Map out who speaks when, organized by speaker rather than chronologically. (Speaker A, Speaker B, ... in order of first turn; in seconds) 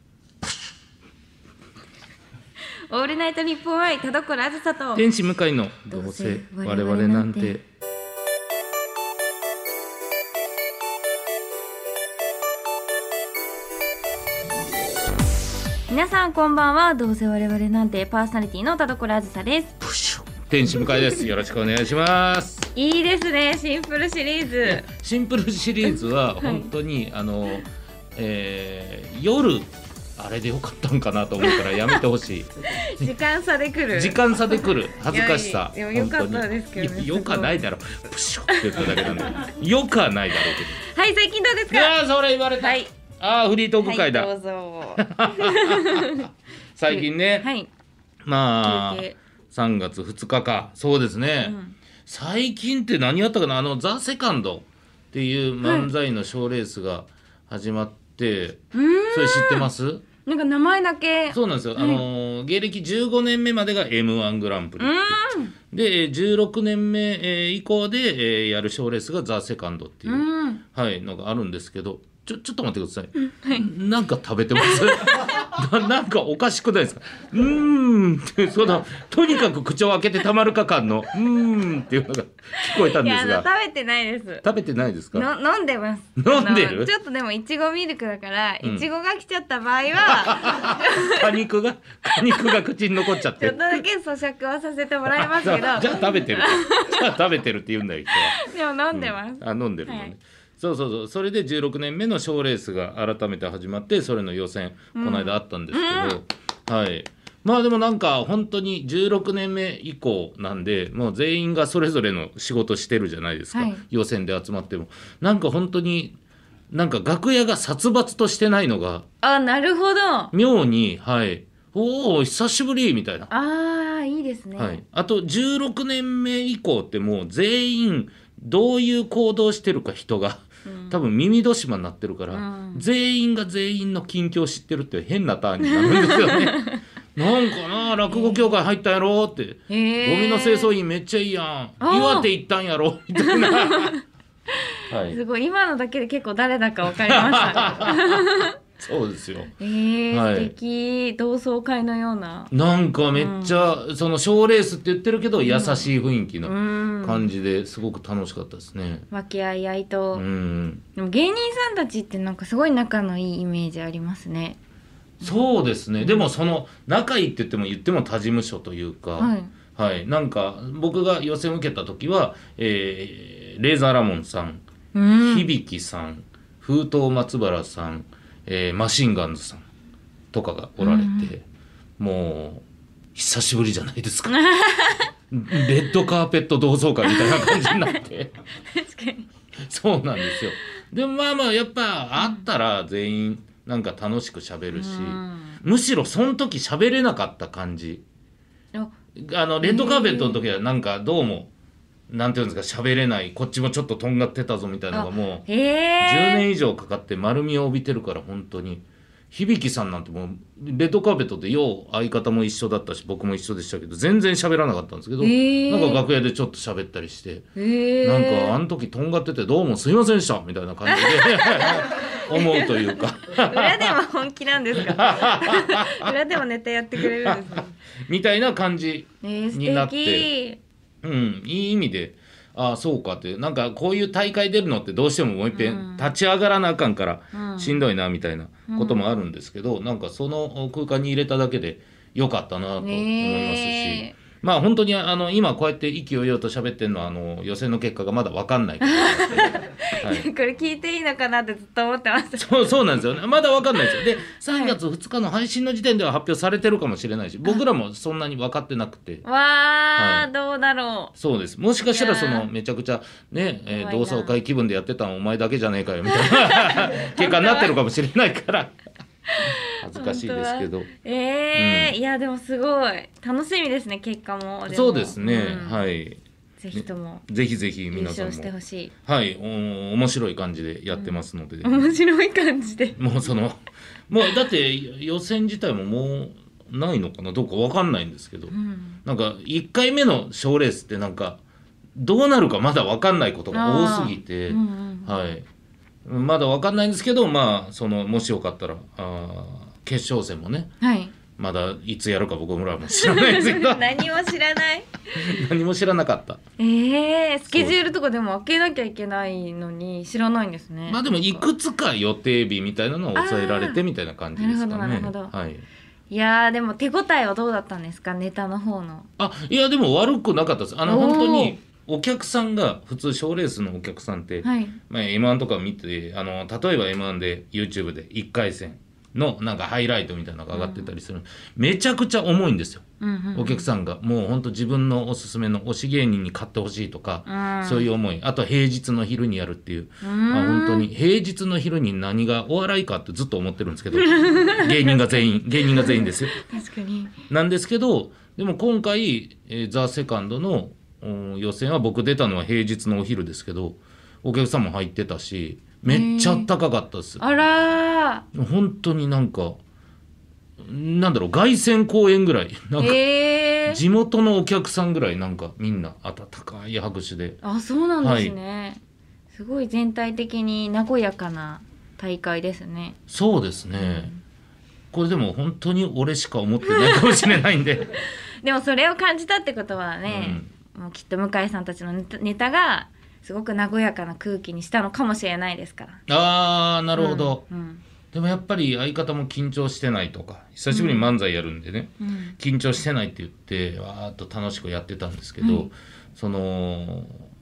Speaker A: 2.9-5.1, 5.9-7.5, 15.9-19.8, 22.7-24.9, 26.4-26.7, 31.4-32.0, 32.6-34.2, 35.1-37.5, 38.5-39.0, 40.8-41.9, 42.6-42.9, 43.8-46.3, 46.9-47.7, 48.6-49.2, 51.4-51.7, 55.6-55.9, 58.7-59.7, 60.2-62.0, 64.8-65.5, 70.0-70.6, 73.2-73.6, 74.6-74.9, 82.5-84.4, 85.1-91.3, 92.2-92.6, 93.2-97.2, 98.1-100.1, 104.9-106.2, 113.5-113.8, 119.2-120.3, 123.3-124.8, 130.7-131.0, 132.3-132.8, 135.6-136.8, 138.1-138.4, 139.7-140.7, 141.8-142.3, 143.2-148.6, 149.6-152.5, 153.1-153.7, 155.4-155.9, 156.4-157.2, 159.1-160.2, 160.9-164.6, 166.0-166.2, 169.2-169.5, 174.9-175.5, 180.8-181.3, 184.3-185.1, 187.0-188.0, 188.7-189.3, 194.7-195.6, 199.6-200.5, 204.9-206.4, 215.2-216.0, 217.6-218.6, 220.9-227.7, 229.2-230.6, 235.5-236.1, 237.3-237.8, 238.7-239.0, 242.8-244.1, 248.8-252.7, 254.5-254.7, 259.2-261.1, 261.9-262.5, 263.7-264.3, 266.1-267.7, 269.3-275.8, 276.6-277.2, 277.9-278.9, 280.9-283.0, 288.5-289.0, 293.5-295.1, 300.8-301.1, 302.9-305.3, 306.6-311.4, 313.1-313.8, 314.4-315.3, 316.1-319.1, 320.9-321.6, 324.4-324.8, 330.5-330.9, 333.0-333.7, 337.3-337.9, 340.0-340.9, 343.9-347.1, 355.9-356.5, 357.2-358.2, 362.8-363.8, 367.4-368.8, 369.3-373.0, 373.8-374.2, 376.6-377.4, 377.9-386.0, 386.9-387.8, 390.7-391.1, 392.0-392.4, 395.4-395.7
Speaker B: 4.9-7.6, 19.8-22.7, 24.7-33.1, 33.9-40.8, 41.7-44.3, 45.0-47.5, 48.2-60.0, 61.3-83.5, 84.4-85.3, 86.2-86.9, 90.0-93.8, 95.1-116.2, 116.7-119.0, 120.3-123.3, 124.6-143.9, 144.9-145.2, 146.8-149.5, 150.1-150.5, 152.5-159.1, 160.1-160.8, 165.2-174.6, 175.2-179.7, 180.3-181.4, 182.0-182.6, 183.1-184.4, 185.3-188.3, 189.6-198.0, 199.2-201.5, 202.1-205.4, 206.0-217.5, 218.0-224.0, 224.7-226.2, 226.9-230.3, 231.0-250.3, 252.4-259.2, 259.9-260.3, 261.2-268.8, 269.8-270.9, 271.5-271.9, 274.7-276.2, 276.7-278.5, 279.1-281.9, 283.0-288.5, 289.0-291.4, 291.9-295.4, 296.0-300.7, 301.4-303.9, 305.1-306.4, 307.5-307.8, 310.9-315.6, 319.2-332.8, 333.3-346.4, 347.3-357.2, 358.3-359.6, 360.6-363.0, 363.6-367.4, 368.0-368.3, 373.1-374.1, 374.9-377.9, 380.1-380.5, 386.1-387.4, 388.1-397.2